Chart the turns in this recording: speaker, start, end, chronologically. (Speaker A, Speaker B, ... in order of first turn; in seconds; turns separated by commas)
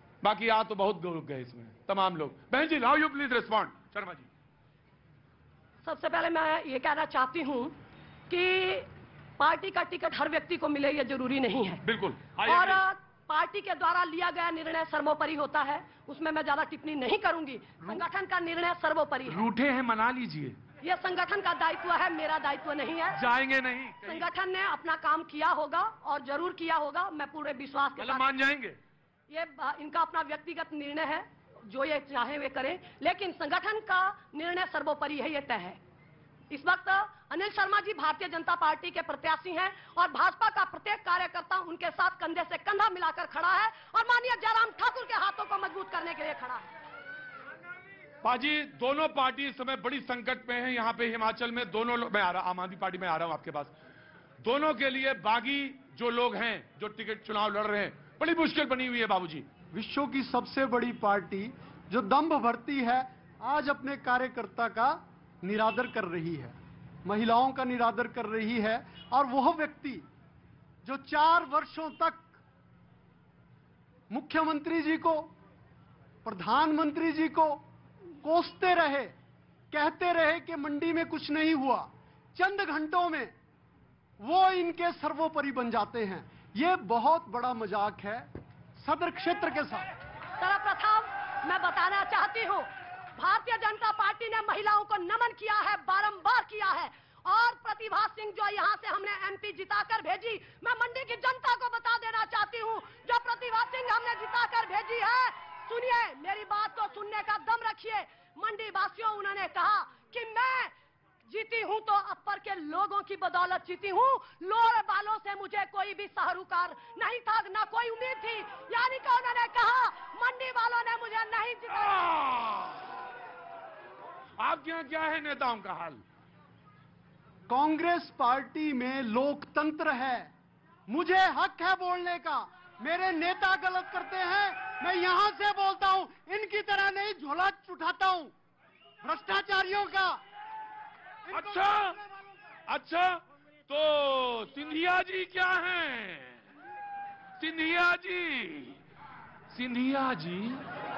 Speaker A: 0.2-4.3, Speaker B: 5.8-7.7, Speaker B: 8.3-8.9, Speaker B: 9.4-11.8, Speaker A: 11.8-12.8, Speaker B: 12.4-19.4, Speaker A: 19.3-20.6, Speaker B: 20.8-23.2, Speaker A: 23.1-24.3, Speaker B: 24.0-28.3, Speaker A: 28.0-28.8, Speaker B: 29.3-35.8, Speaker B: 36.5-46.6, Speaker A: 48.2-53.7, Speaker A: 54.4-59.5, Speaker C: 59.7-70.0, Speaker C: 70.8-72.4, Speaker C: 74.1-75.3, Speaker C: 76.2-77.6, Speaker C: 78.2-79.1, Speaker C: 79.7-83.3, Speaker C: 84.2-89.9, Speaker B: 90.4-110.7, Speaker B: 111.3-122.0, Speaker A: 121.7-122.9, Speaker A: 124.4-126.0, Speaker C: 127.5-130.3, Speaker C: 130.9-138.3, Speaker C: 139.0-140.2, Speaker C: 141.3-142.1, Speaker A: 141.3-142.0, Speaker A: 142.7-146.4, Speaker A: 147.4-148.8, Speaker A: 149.5-150.6